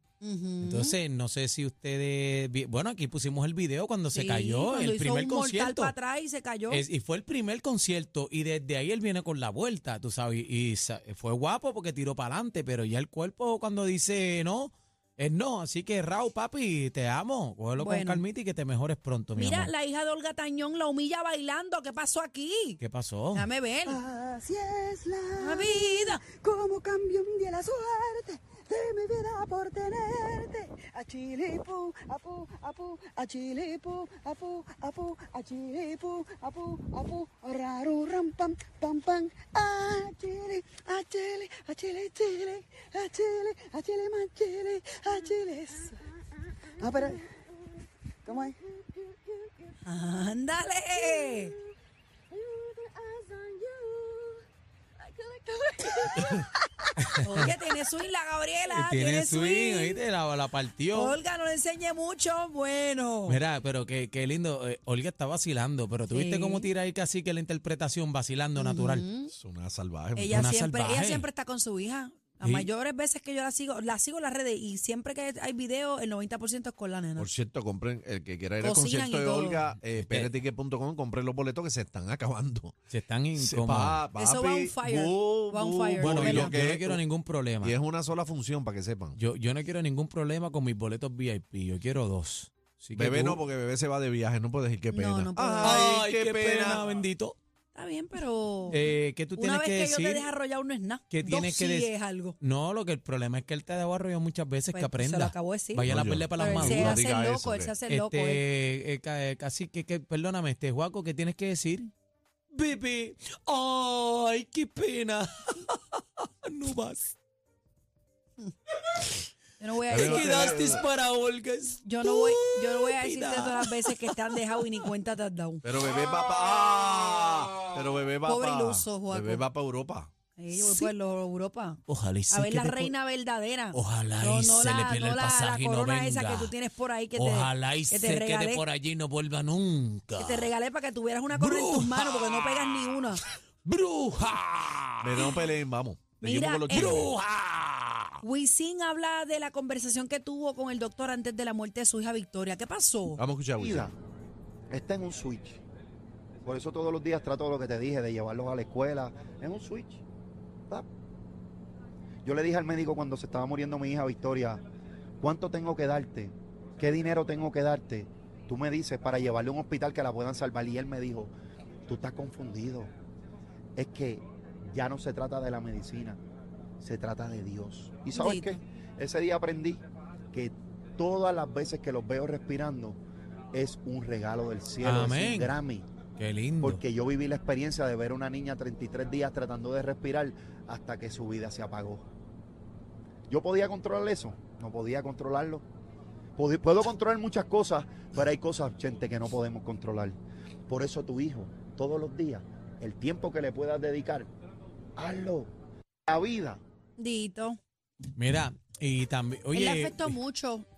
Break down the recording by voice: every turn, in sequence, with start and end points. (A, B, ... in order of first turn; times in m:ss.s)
0:00.2-0:01.0 A
0:00.6-0:06.0 B
0:04.1-0:06.8 A
0:06.7-0:19.7 B
0:17.8-0:18.2 A
0:19.4-0:22.8 A
0:22.8-0:23.5 B
0:23.3-0:24.0 A
0:23.9-0:46.0 C
0:25.4-0:26.2 A
0:46.8-0:47.2 C
0:48.2-0:49.7 C
0:49.8-0:51.6 A
0:50.9-0:51.5 C
0:52.3-0:54.4 C
0:55.0-0:56.5 C
0:57.2-1:00.0 A
0:58.8-1:01.2 B
1:00.9-1:03.4 A
1:03.3-1:09.1 B
1:06.1-1:06.7 A
1:08.6-1:09.3 A
1:09.3-1:10.4 D
1:10.2-1:17.3 A
1:10.3-1:11.3 B
1:12.4-1:12.7 B
1:17.2-1:22.7 D
1:18.6-1:19.6 A
1:19.8-1:20.4 B
1:22.9-1:24.0 B
1:23.4-1:27.0 D
1:24.2-1:26.6 A
1:26.0-1:27.8 B
1:27.6-1:29.2 D
1:29.2-1:33.4 B
1:33.0-1:36.8 D
1:34.9-1:35.9 A
1:35.6-1:37.4 B
1:37.7-1:38.8 A
1:38.7-1:40.3 B
1:39.4-1:42.4 A
1:41.1-1:47.0 B
1:44.7-1:48.4 A
1:45.9-1:47.7 D
1:47.9-1:51.9 B
1:52.5-1:57.2 B
1:59.6-2:00.5 A
1:59.9-2:00.8 D
1:59.9-2:04.4 B
2:01.8-2:05.7 A
2:05.6-2:10.1 D
2:08.2-2:09.4 A
2:10.4-2:18.6 A
2:10.5-2:10.9 B
2:11.9-2:12.9 B
2:13.7-2:16.5 B
2:17.2-2:20.5 B
2:20.2-2:23.2 A
2:21.4-2:25.4 B
2:25.0-2:27.2 D
2:26.2-2:27.1 A
2:26.7-2:28.2 B
2:28.2-2:33.2 A
2:33.2-2:33.9 D
2:33.6-2:33.9 E
2:34.7-2:35.6 E
2:36.4-2:40.0 E
2:42.2-2:44.6 E
2:45.2-2:51.3 E
2:51.9-2:52.9 E
2:53.8-2:56.2 E
2:56.8-2:59.8 E
2:58.1-2:58.6 A
3:00.3-3:03.0 E
3:03.5-3:05.9 E
3:04.8-3:05.6 B
3:06.2-3:06.8 B
3:06.6-3:12.0 E
3:13.3-3:15.6 E
3:16.4-3:20.2 E
3:20.7-3:24.3 E
3:25.0-3:25.5 E
3:26.1-3:26.6 E
3:27.0-3:27.6 A
3:28.1-3:30.2 B
3:29.5-3:30.7 A